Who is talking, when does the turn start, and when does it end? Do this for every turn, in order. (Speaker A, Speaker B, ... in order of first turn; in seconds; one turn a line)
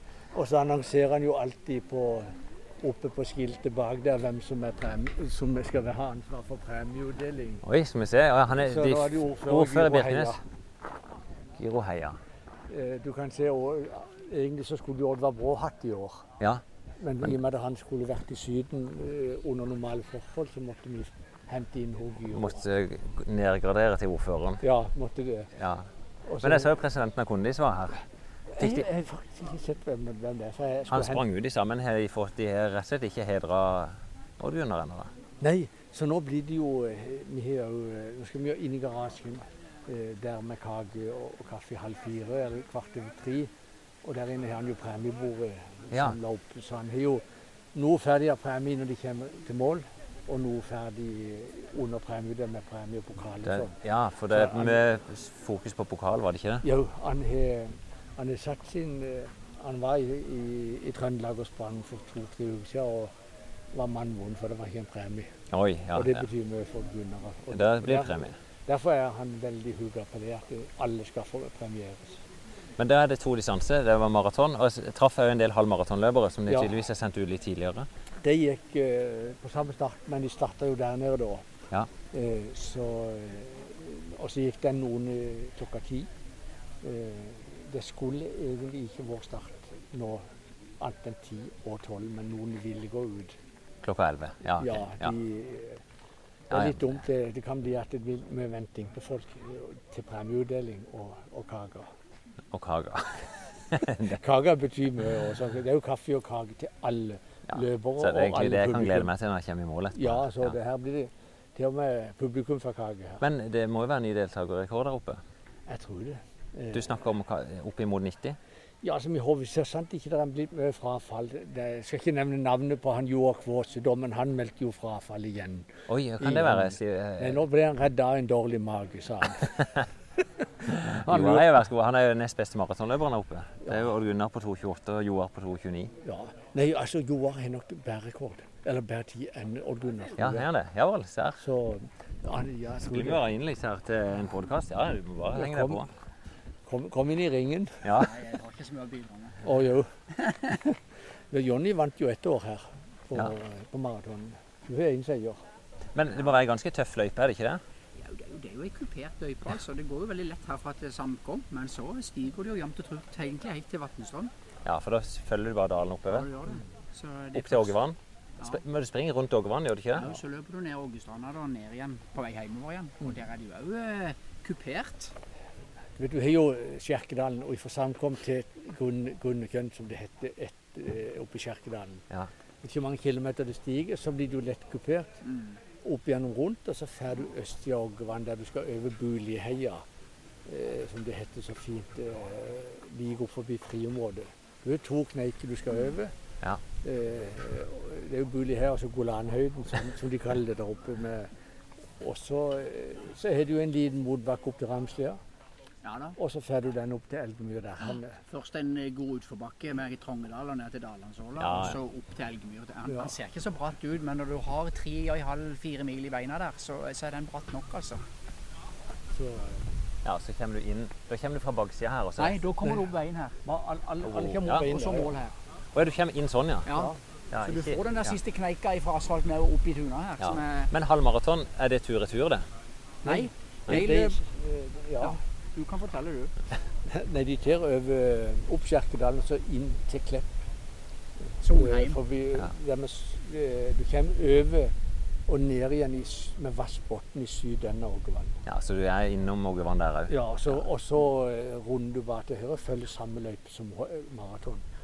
Speaker A: 0.3-7.6
Speaker B: 7.6-10.4
Speaker A: 8.5-10.4
Speaker B: 11.6-12.2
Speaker A: 12.7-16.3
Speaker B: 16.4-16.6
Speaker A: 17.0-22.6
Speaker B: 22.3-24.6
Speaker A: 24.6-25.5
Speaker B: 25.5-28.1
Speaker A: 26.2-26.7
Speaker A: 28.5-31.2
Speaker B: 28.6-28.9
Speaker B: 30.9-35.1
Speaker A: 35.4-43.5
Speaker A: 44.0-53.7
Speaker B: 45.9-46.2
Speaker B: 53.4-56.6
Speaker A: 54.3-54.8
Speaker A: 56.6-63.1
Speaker A: 63.7-65.3
Speaker B: 65.5-66.3
Speaker A: 65.9-72.2
Speaker B: 67.5-68.4
Speaker B: 72.8-77.9
Speaker A: 76.5-76.7
Speaker A: 78.2-81.5
Speaker A: 82.1-86.1
Speaker A: 86.8-93.4
Speaker B: 93.8-95.2
Speaker A: 94.6-95.8
Speaker A: 96.5-101.9
Speaker B: 96.5-97.0
Speaker B: 102.5-104.2
Speaker A: 104.1-109.1
Speaker B: 107.5-110.6
Speaker A: 110.0-113.2
Speaker B: 113.2-115.2
Speaker A: 115.7-116.9
Speaker B: 116.7-118.4
Speaker A: 118.8-129.5
Speaker B: 125.9-127.4
Speaker B: 130.7-135.9
Speaker A: 130.9-131.6
Speaker A: 136.0-140.4
Speaker B: 140.2-141.4
Speaker A: 141.4-143.2
Speaker B: 142.8-145.9
Speaker A: 145.3-145.8
Speaker A: 146.7-147.8
Speaker B: 147.8-148.2
Speaker C: 147.9-149.5
Speaker A: 149.4-150.0
Speaker A: 151.3-155.4
Speaker B: 155.9-157.6
Speaker C: 157.9-164.3
Speaker B: 164.6-166.3
Speaker C: 166.1-167.7
Speaker B: 167.3-170.2
Speaker C: 169.9-175.1
Speaker A: 176.0-182.0
Speaker A: 182.6-185.2
Speaker C: 185.2-185.6
Speaker A: 185.8-189.8
Speaker A: 190.4-196.1
Speaker A: 196.8-201.3
Speaker A: 202.0-205.2
Speaker C: 205.8-206.2
Speaker A: 206.2-208.2
Speaker C: 208.3-218.0
Speaker B: 211.4-211.8
Speaker A: 212.8-213.1
Speaker A: 219.1-219.7
Speaker B: 220.0-222.4
Speaker C: 222.2-223.4
Speaker A: 223.4-225.3
Speaker B: 224.0-224.7
Speaker C: 224.7-225.3
Speaker B: 225.7-226.7
Speaker C: 226.7-230.7
Speaker B: 227.3-228.2
Speaker B: 230.2-232.5
Speaker C: 233.0-234.2
Speaker A: 233.0-235.2
Speaker C: 235.0-236.3
Speaker A: 236.8-240.3
Speaker A: 241.4-244.7
Speaker C: 241.4-242.0
Speaker A: 245.3-248.4
Speaker B: 248.4-250.6
Speaker A: 250.1-254.6